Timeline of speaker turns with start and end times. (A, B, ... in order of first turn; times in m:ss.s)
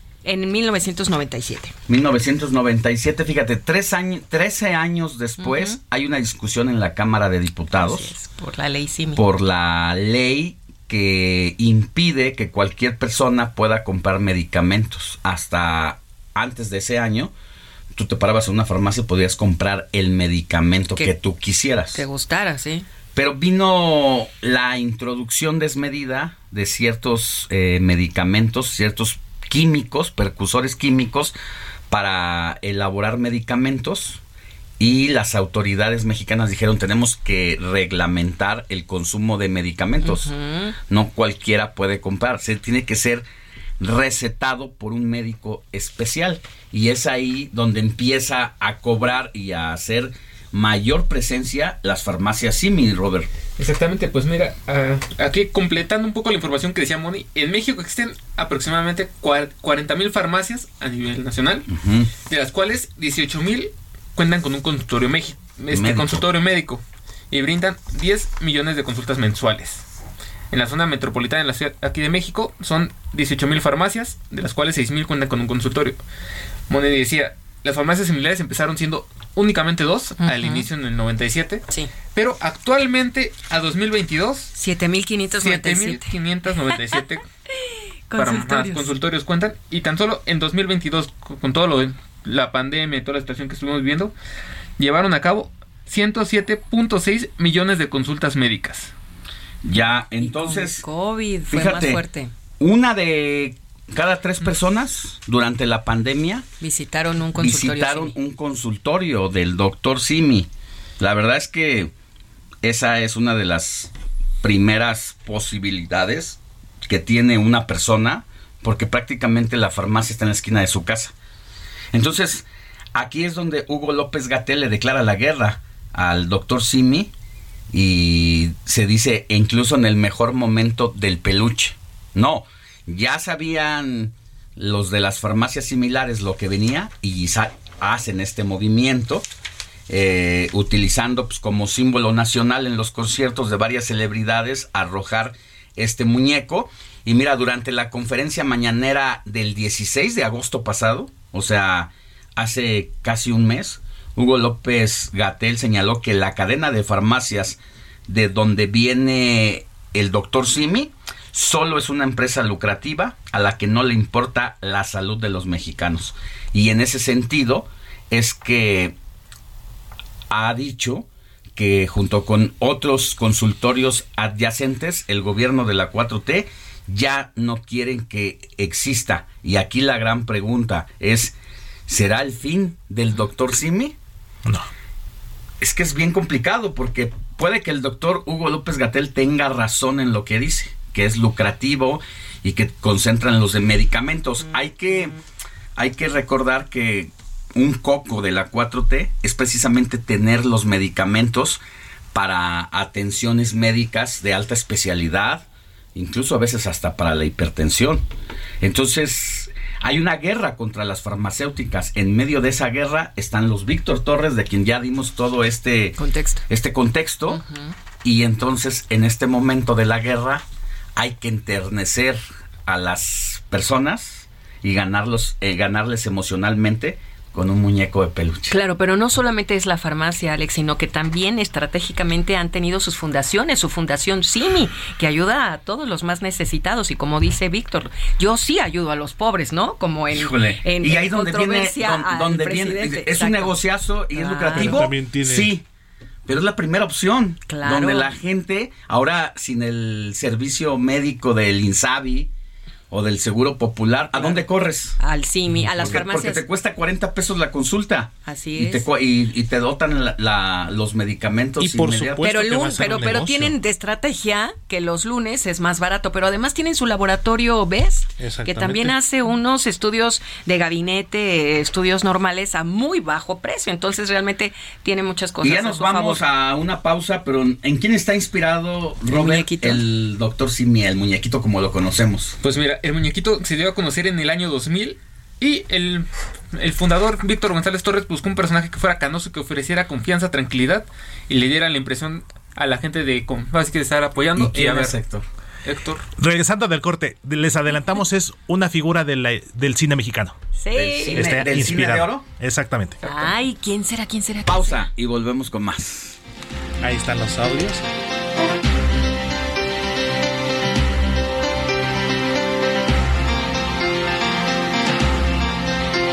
0:00.2-0:01.7 A
0:01.9-0:08.1 B
0:05.4-0:05.8 A
0:07.8-0:09.2 A
0:09.2-0:17.3 B
0:17.9-0:22.0 B
0:21.9-0:22.8 A
0:23.1-0:31.4 B
0:31.9-0:34.2 B
0:34.8-0:40.3 B
0:40.0-0:40.8 A
0:40.9-0:43.2 B
0:43.8-0:53.3 B
0:53.6-1:01.7 C
1:01.7-1:02.1 B
1:02.2-1:09.8 C
1:05.7-1:06.2 B
1:10.5-1:16.0 C
1:16.7-1:21.6 C
1:20.2-1:20.6 A
1:22.1-1:24.5 C
1:24.6-1:26.1 A
1:25.4-1:27.2 C
1:28.1-1:28.9 A
1:28.2-1:34.1 C
1:34.8-1:38.9 C
1:39.6-1:40.8 B
1:40.2-1:42.3 A
1:41.5-1:42.0 B
1:42.6-1:46.4 B
1:46.6-1:48.1 A
1:47.4-1:51.9 B
1:52.6-1:53.9 B
1:54.4-2:01.1 B
2:01.9-2:07.1 B
2:07.7-2:19.3 B
2:19.9-2:48.9 B
2:50.3-3:01.3 B
3:01.9-3:03.9 B
3:05.6-3:15.1 B
3:15.8-3:21.6 B
3:22.1-3:28.0 B
3:28.6-3:36.0 B
3:36.0-3:36.4 A
3:36.5-3:37.4 B
3:37.3-3:37.7 A
3:38.0-3:40.4 B
3:41.0-3:48.5 B
3:48.5-4:03.6 A
4:00.1-4:05.6 B
4:04.1-4:04.9 A
4:04.5-4:05.5 D
4:06.2-4:12.3 B
4:07.5-4:08.1 A
4:12.9-4:15.0 B
4:14.1-4:14.4 A
4:15.0-4:16.4 A
4:15.8-4:22.3 B
4:18.2-4:18.8 A
4:21.6-4:23.6 D
4:22.2-4:36.2 A
4:28.2-4:28.9 D
4:35.4-4:42.4 B
4:39.1-4:39.8 A
4:42.4-4:55.0 C
4:54.4-4:55.2 B
4:55.6-4:56.0 C
4:56.2-5:00.4 D
5:00.6-5:01.5 A
5:00.7-5:02.2 B
5:01.1-5:03.0 D
5:03.0-5:04.8 A
5:04.4-5:06.2 B
5:06.8-5:07.8 D